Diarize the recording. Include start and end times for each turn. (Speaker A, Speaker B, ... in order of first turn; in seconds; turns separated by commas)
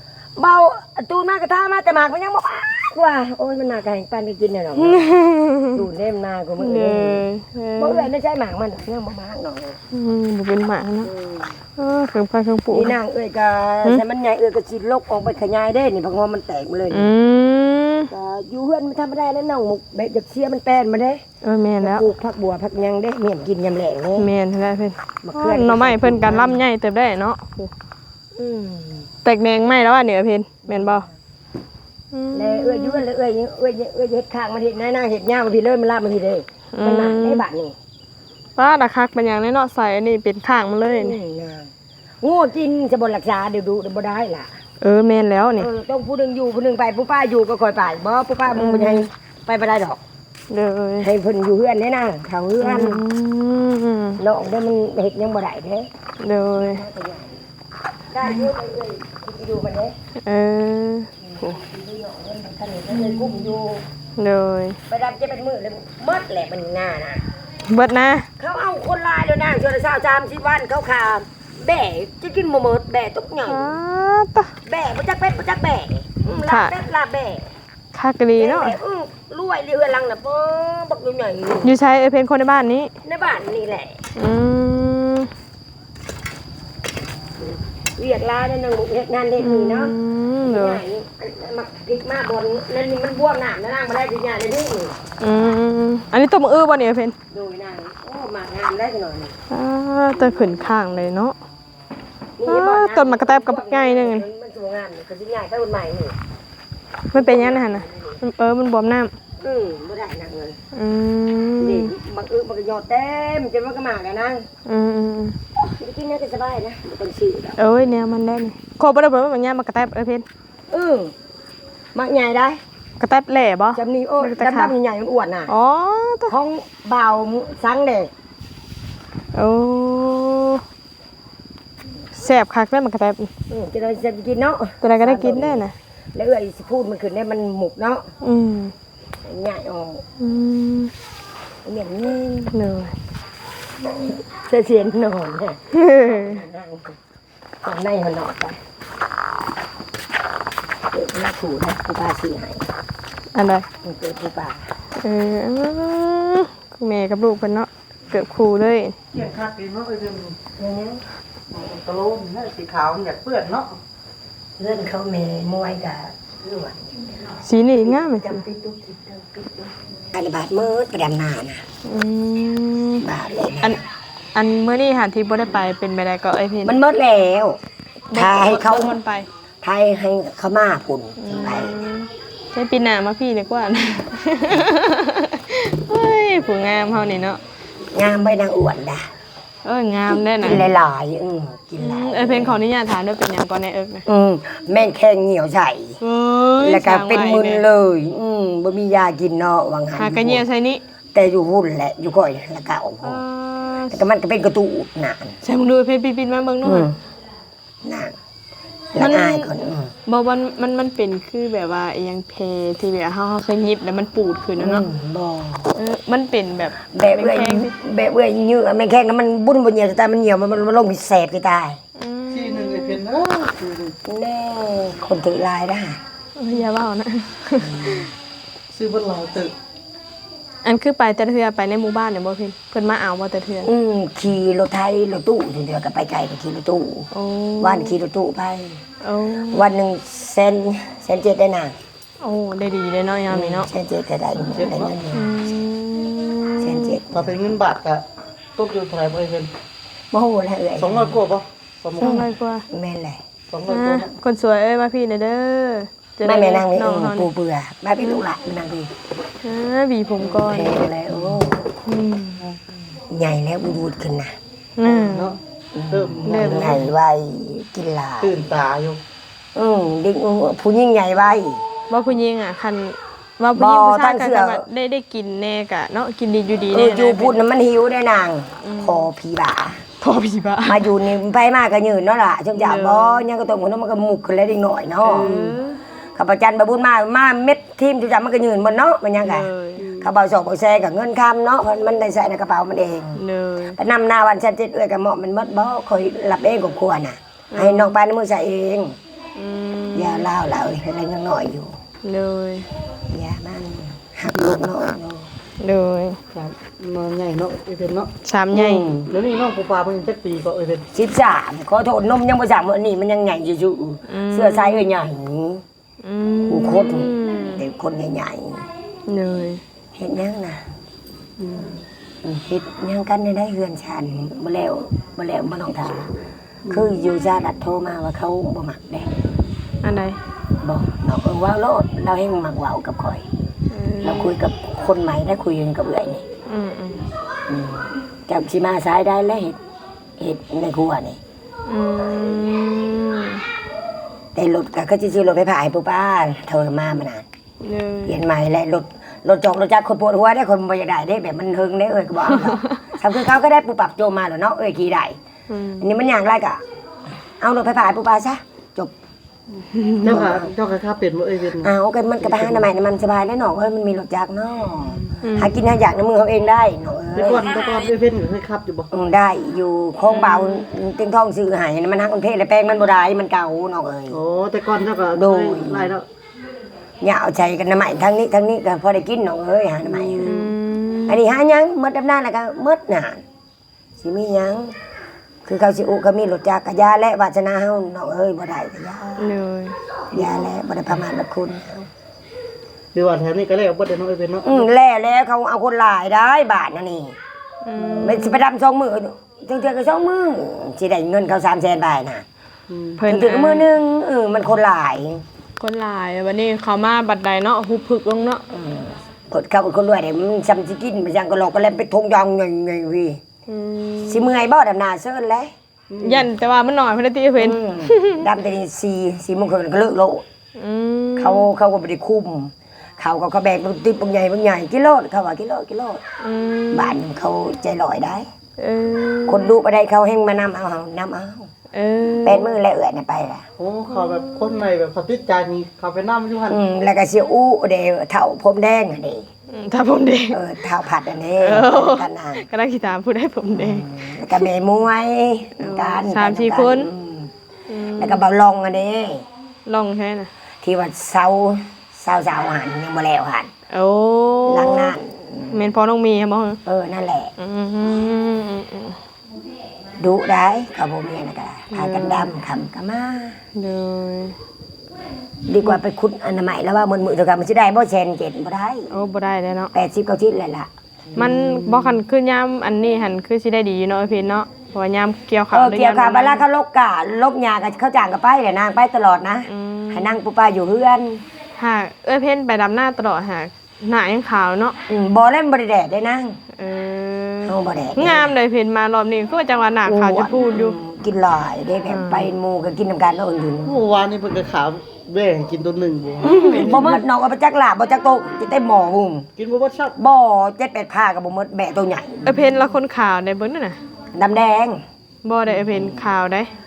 Speaker A: 0.4-5.0, Speaker B: 4.8-5.8, Speaker A: 5.7-7.2, Speaker B: 6.6-8.1, Speaker A: 7.8-9.8, Speaker B: 9.9-11.1, Speaker A: 11.0-11.6, Speaker B: 11.8-12.9, Speaker A: 12.7-17.1, Speaker B: 16.9-18.1, Speaker A: 18.1-21.2, Speaker B: 21.4-22.1, Speaker A: 21.8-24.3, Speaker B: 24.2-27.7, Speaker A: 25.2-26.6, Speaker A: 28.3-29.1, Speaker B: 29.2-31.1, Speaker A: 30.6-31.2, Speaker B: 32.1-33.0, Speaker A: 32.3-37.8, Speaker B: 36.7-37.4, Speaker B: 38.6-41.2, Speaker A: 40.9-41.7, Speaker A: 42.2-44.6, Speaker B: 44.8-45.7, Speaker A: 45.6-50.0, Speaker B: 48.5-49.1, Speaker B: 50.5-51.1, Speaker A: 51.0-53.0, Speaker B: 52.6-54.2, Speaker A: 54.2-55.9, Speaker B: 56.2-56.8, Speaker A: 56.5-57.4, Speaker A: 58.1-59.9, Speaker B: 60.2-61.6, Speaker A: 61.2-63.9, Speaker B: 62.9-63.3, Speaker B: 64.2-64.8, Speaker A: 64.9-67.2, Speaker B: 67.7-68.3, Speaker A: 68.4-73.7, Speaker B: 73.5-74.5, Speaker A: 74.6-77.5, Speaker B: 76.5-76.7, Speaker B: 77.9-78.8, Speaker A: 78.4-81.7, Speaker B: 81.6-82.9, Speaker A: 83.0-84.0, Speaker B: 84.2-85.3, Speaker A: 87.4-89.9, Speaker B: 89.4-90.8, Speaker A: 90.4-95.0, Speaker B: 95.2-97.2, Speaker A: 97.3-99.3, Speaker B: 99.5-101.3, Speaker A: 102.4-106.2, Speaker B: 102.5-104.2, Speaker B: 107.1-109.1, Speaker A: 107.1-108.2, Speaker A: 109.4-110.6, Speaker B: 110.7-111.9, Speaker A: 111.6-114.5, Speaker B: 114.7-115.4, Speaker A: 115.5-117.6, Speaker B: 117.6-120.2, Speaker A: 120.7-121.1, Speaker A: 121.9-122.6, Speaker B: 123.0-124.7, Speaker A: 123.7-125.5, Speaker B: 125.5-126.3, Speaker A: 126.3-128.1, Speaker B: 129.3-130.6, Speaker B: 132.1-133.3, Speaker A: 133.5-135.6, Speaker B: 134.8-135.7, Speaker A: 136.1-138.1, Speaker B: 138.2-138.7, Speaker A: 139.2-140.0, Speaker B: 140.2-140.9, Speaker A: 141.6-142.5, Speaker B: 142.5-142.9, Speaker A: 143.8-147.0, Speaker B: 145.7-146.4, Speaker A: 147.6-148.6, Speaker A: 150.9-152.7, Speaker B: 153.3-153.7, Speaker A: 153.8-154.7, Speaker B: 155.0-159.0, Speaker C: 159.1-160.4, Speaker A: 160.6-161.0, Speaker C: 161.5-163.8, Speaker A: 164.6-171.6, Speaker B: 167.4-168.2, Speaker B: 171.8-173.0, Speaker A: 173.0-173.8, Speaker B: 174.3-176.8, Speaker A: 176.6-177.6, Speaker B: 178.1-179.3, Speaker A: 178.1-179.0, Speaker A: 179.6-181.9, Speaker B: 181.2-187.4, Speaker A: 187.9-189.1, Speaker B: 189.6-190.7, Speaker A: 190.2-192.6, Speaker B: 191.8-194.1, Speaker A: 194.1-196.0, Speaker B: 196.0-197.6, Speaker A: 196.6-200.4, Speaker B: 200.0-200.8, Speaker A: 201.1-203.2, Speaker B: 203.0-204.0, Speaker A: 203.9-205.4, Speaker B: 205.4-206.9, Speaker A: 206.6-207.0, Speaker A: 207.8-208.2, Speaker A: 208.9-209.9, Speaker B: 209.0-209.5, Speaker B: 210.1-214.9, Speaker A: 214.6-215.8, Speaker B: 215.8-217.7, Speaker A: 216.8-221.8, Speaker B: 222.0-223.0, Speaker C: 222.3-224.0, Speaker A: 224.1-226.0, Speaker B: 226.4-228.1, Speaker A: 227.6-228.1, Speaker C: 228.7-229.5, Speaker B: 230.6-233.7, Speaker A: 233.6-238.8, Speaker B: 237.1-237.9, Speaker B: 239.0-239.6, Speaker A: 239.5-241.8, Speaker B: 242.2-243.7, Speaker A: 243.3-245.5, Speaker C: 244.3-244.9, Speaker B: 245.1-247.0, Speaker A: 246.6-247.4, Speaker C: 247.1-248.0, Speaker C: 248.6-249.5, Speaker A: 250.1-251.2, Speaker C: 250.8-252.3, Speaker B: 252.0-252.6, Speaker A: 252.0-253.2, Speaker C: 253.5-254.1, Speaker B: 253.7-257.3, Speaker A: 256.2-258.9, Speaker B: 259.4-260.8, Speaker A: 260.2-261.7, Speaker C: 261.1-261.4, Speaker B: 261.9-262.4, Speaker A: 262.9-264.4, Speaker B: 264.8-265.4, Speaker C: 264.8-265.4, Speaker A: 265.7-268.4, Speaker C: 265.9-266.9, Speaker B: 266.2-266.8, Speaker C: 268.2-269.0, Speaker A: 269.5-271.6, Speaker B: 271.9-277.4, Speaker A: 273.5-274.6, Speaker A: 276.7-279.8, Speaker B: 278.6-279.0, Speaker B: 280.0-280.9, Speaker A: 280.6-285.3, Speaker B: 282.6-283.2, Speaker B: 285.0-285.8, Speaker C: 285.1-285.6, Speaker A: 286.1-293.2, Speaker B: 289.2-289.8, Speaker C: 289.8-290.1, Speaker B: 293.1-293.8, Speaker A: 293.8-299.0, Speaker B: 297.5-298.0, Speaker B: 299.4-300.3, Speaker A: 299.9-301.8, Speaker B: 302.0-302.7, Speaker A: 303.1-305.3, Speaker B: 305.6-306.2, Speaker C: 306.3-308.1, Speaker B: 308.2-308.9, Speaker A: 308.5-309.1, Speaker C: 309.1-310.9, Speaker A: 310.9-315.6, Speaker B: 314.1-314.9, Speaker B: 316.0-317.6, Speaker A: 316.5-318.7, Speaker B: 319.1-319.6, Speaker A: 319.9-320.7, Speaker C: 321.4-321.7, Speaker A: 322.2-326.1, Speaker C: 326.6-327.0, Speaker A: 326.7-329.3, Speaker B: 329.8-330.2, Speaker A: 330.6-333.2, Speaker B: 333.7-334.3, Speaker A: 334.0-336.2, Speaker B: 336.5-337.0, Speaker A: 337.5-339.6, Speaker A: 340.2-341.2, Speaker B: 341.6-343.4, Speaker A: 344.4-347.2, Speaker B: 347.6-348.2, Speaker A: 348.1-355.2, Speaker B: 352.3-352.8, Speaker B: 355.5-355.9, Speaker A: 355.8-356.6, Speaker A: 357.4-358.9, Speaker B: 359.7-360.1, Speaker C: 360.0-362.7, Speaker A: 360.0-360.5, Speaker A: 361.6-367.5, Speaker B: 365.2-365.5, Speaker C: 367.1-368.9, Speaker A: 368.9-374.2, Speaker B: 370.1-370.6, Speaker C: 374.1-376.1, Speaker A: 375.1-376.0, Speaker A: 377.0-380.3, Speaker C: 379.8-380.5, Speaker B: 380.2-381.2, Speaker A: 381.1-383.2, Speaker A: 384.0-384.8, Speaker A: 385.4-389.4, Speaker B: 389.2-389.8, Speaker A: 390.1-391.9, Speaker C: 390.1-390.4, Speaker C: 392.9-394.7, Speaker A: 394.4-397.2, Speaker B: 397.6-398.4, Speaker C: 397.8-398.1, Speaker A: 398.0-402.2, Speaker C: 402.7-403.0, Speaker B: 403.0-403.7, Speaker A: 403.0-405.2, Speaker B: 405.6-408.4, Speaker A: 408.5-413.2, Speaker B: 413.5-414.3, Speaker A: 414.1-415.5, Speaker C: 415.9-416.3, Speaker B: 416.0-418.2, Speaker A: 417.4-420.2, Speaker B: 420.6-421.5, Speaker A: 421.2-426.0, Speaker B: 426.2-427.0, Speaker A: 426.7-428.3, Speaker B: 428.6-429.5, Speaker A: 429.3-431.5, Speaker B: 431.7-432.5, Speaker A: 432.2-433.5, Speaker C: 433.6-436.6, Speaker B: 433.9-434.6, Speaker A: 436.5-439.3, Speaker B: 439.5-440.4, Speaker A: 440.3-442.4, Speaker B: 441.4-444.5, Speaker A: 443.6-447.3, Speaker B: 445.6-446.9, Speaker B: 447.7-448.2, Speaker A: 448.0-449.2, Speaker B: 449.6-450.3, Speaker A: 450.6-453.5, Speaker B: 453.7-455.0, Speaker A: 454.5-455.6, Speaker B: 455.5-456.6, Speaker A: 456.6-457.3, Speaker B: 457.4-459.0, Speaker A: 460.0-463.4, Speaker B: 461.7-462.3, Speaker B: 463.5-464.4, Speaker A: 465.5-468.9, Speaker B: 468.9-469.7, Speaker A: 469.7-471.2, Speaker C: 471.1-472.0, Speaker B: 471.1-476.4, Speaker A: 475.5-481.2, Speaker B: 479.5-480.2, Speaker B: 481.6-484.8, Speaker A: 484.9-486.4, Speaker B: 486.5-490.8, Speaker A: 487.4-488.3, Speaker A: 489.9-493.8, Speaker B: 491.9-492.3, Speaker C: 493.6-497.0, Speaker A: 496.2-499.3, Speaker B: 496.2-497.0, Speaker C: 499.4-500.0, Speaker A: 500.0-502.2, Speaker B: 502.2-503.8, Speaker A: 504.1-504.8, Speaker B: 505.2-506.5, Speaker A: 505.7-506.0